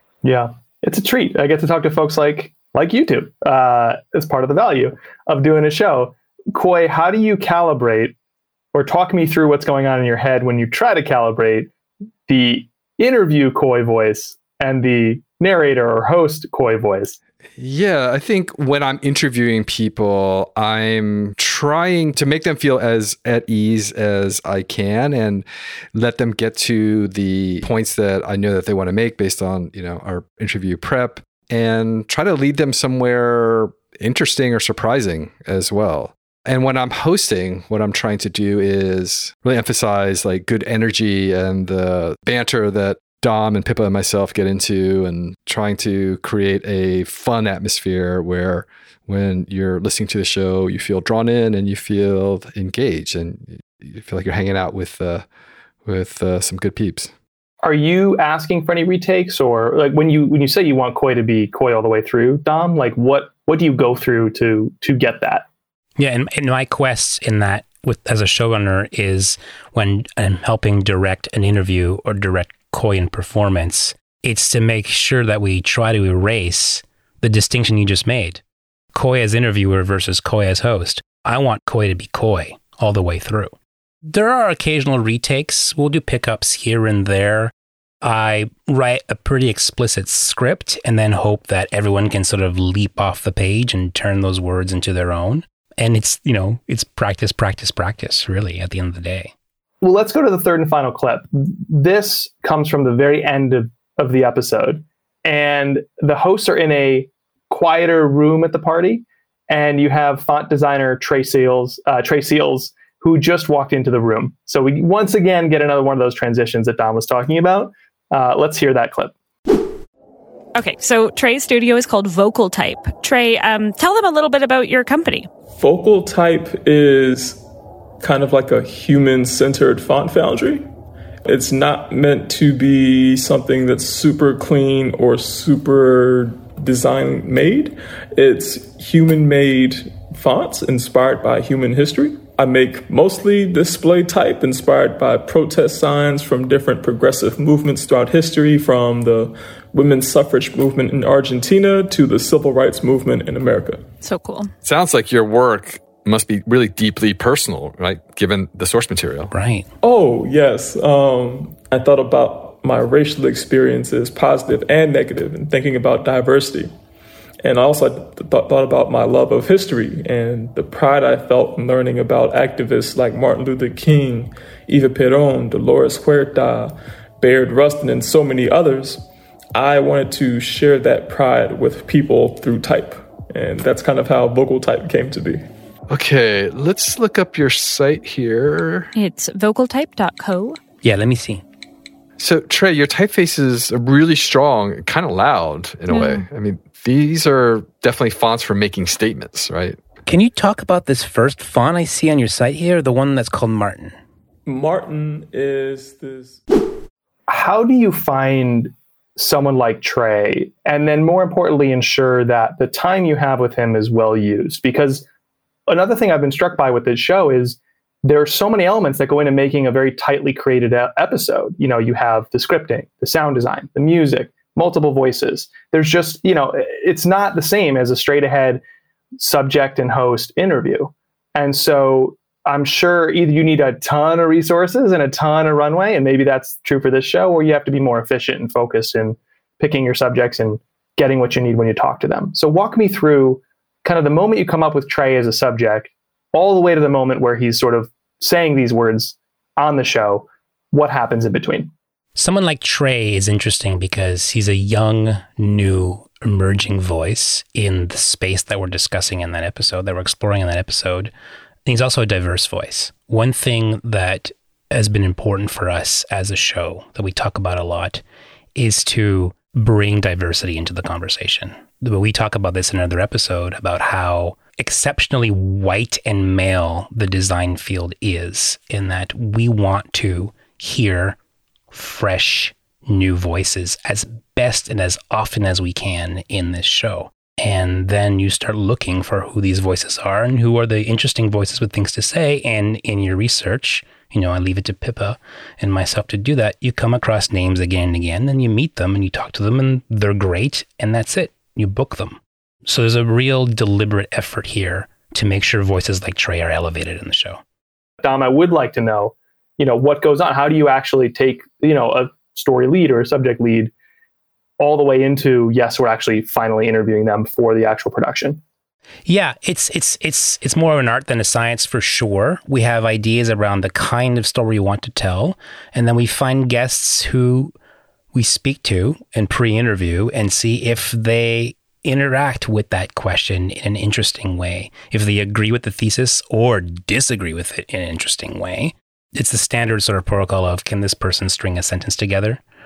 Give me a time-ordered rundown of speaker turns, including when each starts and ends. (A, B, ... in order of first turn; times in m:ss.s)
0:00.2-0:08.1 A
0:08.7-0:11.7 A
0:12.3-0:17.2 A
0:17.6-0:55.3 B
0:55.8-0:57.1 B
0:57.6-1:05.5 A
1:06.0-1:18.4 C
1:18.9-1:23.5 C
1:24.0-1:39.3 C
1:39.8-1:59.1 A
2:00.6-2:05.3 D
2:05.6-2:07.4 E
2:08.0-2:10.7 E
2:11.2-2:33.9 E
2:34.0-2:34.5 D
2:34.6-2:39.3 B
2:39.3-2:39.7 C
2:39.8-2:46.7 E
2:47.4-3:05.4 E
3:05.9-3:08.9 B
3:09.0-3:10.6 D
3:10.8-3:11.4 C
3:12.2-3:19.8 B
3:15.9-3:16.2 D
3:20.1-3:24.0 C
3:24.5-3:26.4 E
3:27.3-3:35.1 A
3:35.7-3:48.6 A
3:49.2-4:11.7 A
4:12.2-4:21.1 C
4:21.7-4:28.0 C
4:28.6-4:41.2 C
4:41.7-5:07.4 C
5:08.0-5:13.7 A
5:14.6-5:18.4 A
5:19.1-5:27.5 C
5:28.1-5:42.4 C